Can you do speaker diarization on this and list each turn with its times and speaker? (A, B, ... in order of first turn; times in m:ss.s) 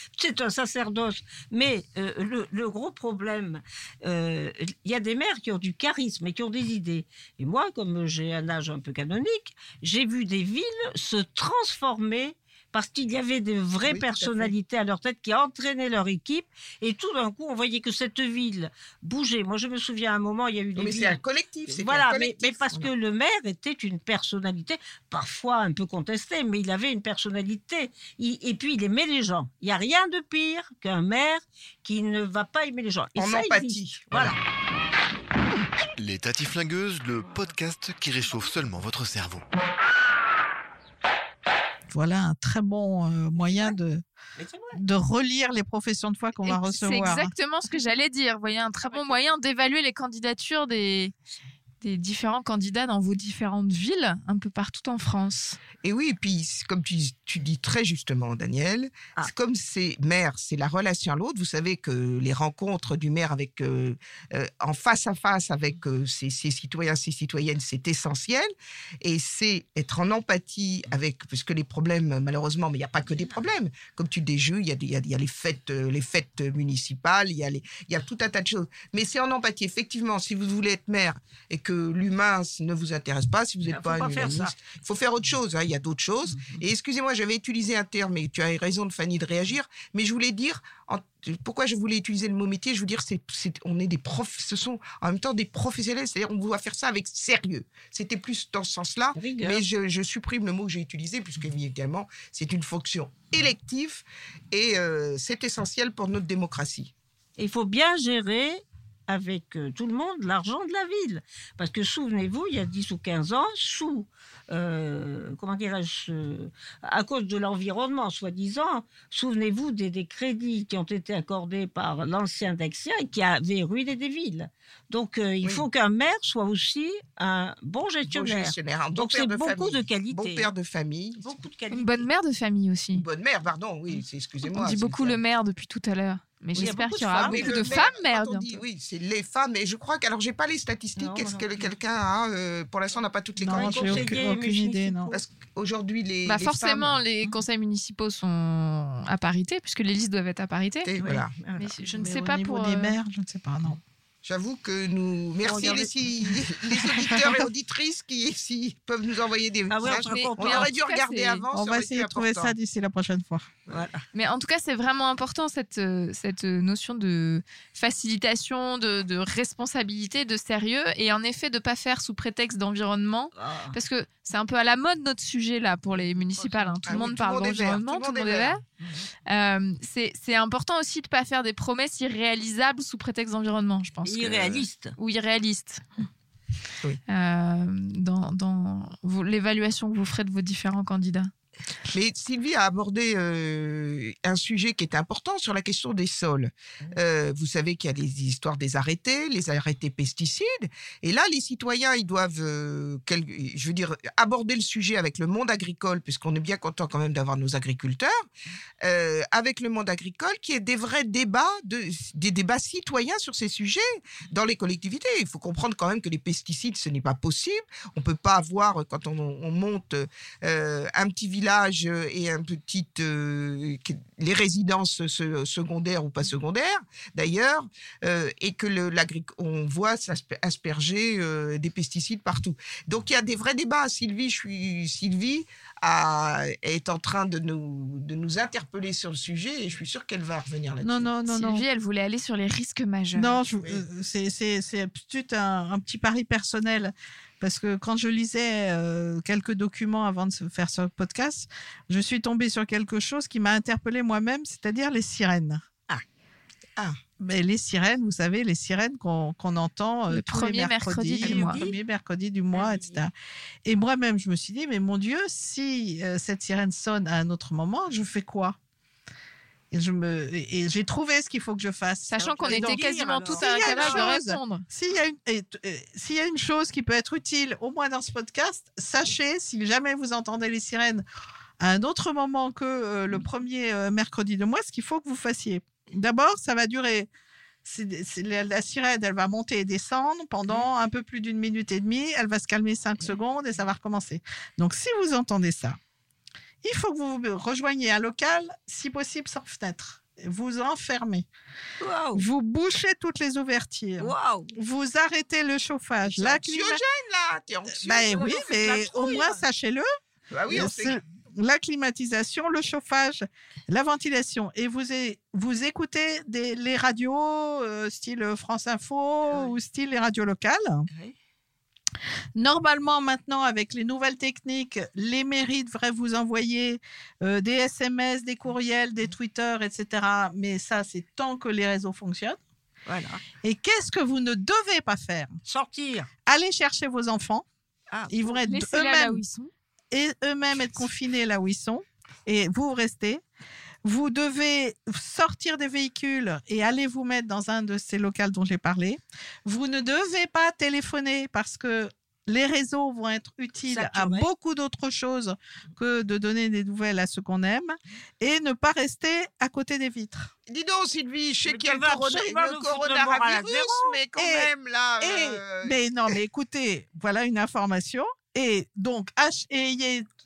0:00.2-0:34.4 A
0:13.8-0:14.5 B
0:20.8-0:22.9 B
0:33.2-0:34.4 B
0:36.0-0:39.4 C
0:41.9-0:44.0 D
0:44.4-0:44.8 A
0:44.7-0:47.3 D
0:46.5-0:51.1 E
0:48.8-0:49.4 A
0:51.8-0:55.6 E
0:55.8-1:08.5 B
1:09.0-1:46.9 B
1:23.7-1:24.5 A
1:26.4-1:26.6 A
1:39.2-1:39.6 A
1:47.4-2:10.5 A
2:08.1-2:11.4 B
2:11.2-2:12.1 A
2:11.7-2:13.0 E
2:12.9-2:15.2 B
2:14.5-2:18.6 E
2:16.6-2:17.9 A
2:16.6-2:24.1 B
2:21.0-2:21.7 A
2:23.4-2:25.1 D
2:23.5-2:25.2 A
2:25.1-2:27.0 B
2:26.3-2:33.0 E
2:30.9-2:31.4 B
2:31.0-2:31.7 A
2:31.9-2:33.8 D
2:34.2-2:42.6 B
2:35.4-2:35.9 A
2:39.7-2:40.7 A
2:39.9-2:41.4 E
2:41.5-2:43.5 D
2:43.7-2:44.0 A
2:44.1-2:58.6 E
2:53.4-2:53.8 A
2:56.3-2:57.2 A
2:56.9-2:58.5 B
2:59.3-3:05.8 E
3:04.0-3:05.0 A
3:07.1-3:11.3 E
3:11.9-3:28.2 B
3:28.8-4:01.1 B
4:00.8-4:01.6 D
4:01.3-4:03.4 E
4:03.2-4:15.6 D
4:17.2-4:23.1 D
4:20.1-4:21.6 E
4:21.2-4:21.8 A
4:22.5-4:23.0 A
4:23.6-4:28.6 D
4:29.7-4:41.0 D
4:32.1-4:34.6 E
4:32.2-4:34.1 A
4:41.6-4:47.1 D
4:47.6-4:55.8 D
4:56.6-5:01.3 D
5:01.8-5:02.2 A
5:02.2-5:06.8 D
5:04.0-5:04.5 A
5:06.0-5:08.6 B
5:07.7-5:09.9 D
5:08.2-5:09.4 A
5:10.3-5:11.0 B
5:10.5-5:20.9 D
5:19.3-5:19.6 A
5:20.9-5:21.2 A
5:22.4-5:32.4 D
5:32.9-5:33.2 A
5:33.4-5:35.4 D
5:35.4-5:36.1 A
5:36.3-5:37.4 D
5:37.9-5:38.2 A
5:38.1-5:39.2 D
5:38.4-5:39.5 E
5:39.9-5:43.2 D
5:43.8-6:00.3 D
5:53.7-5:54.3 A
6:00.5-6:05.8 B
6:01.5-6:04.0 A
6:04.2-6:04.5 D
6:05.0-6:10.1 D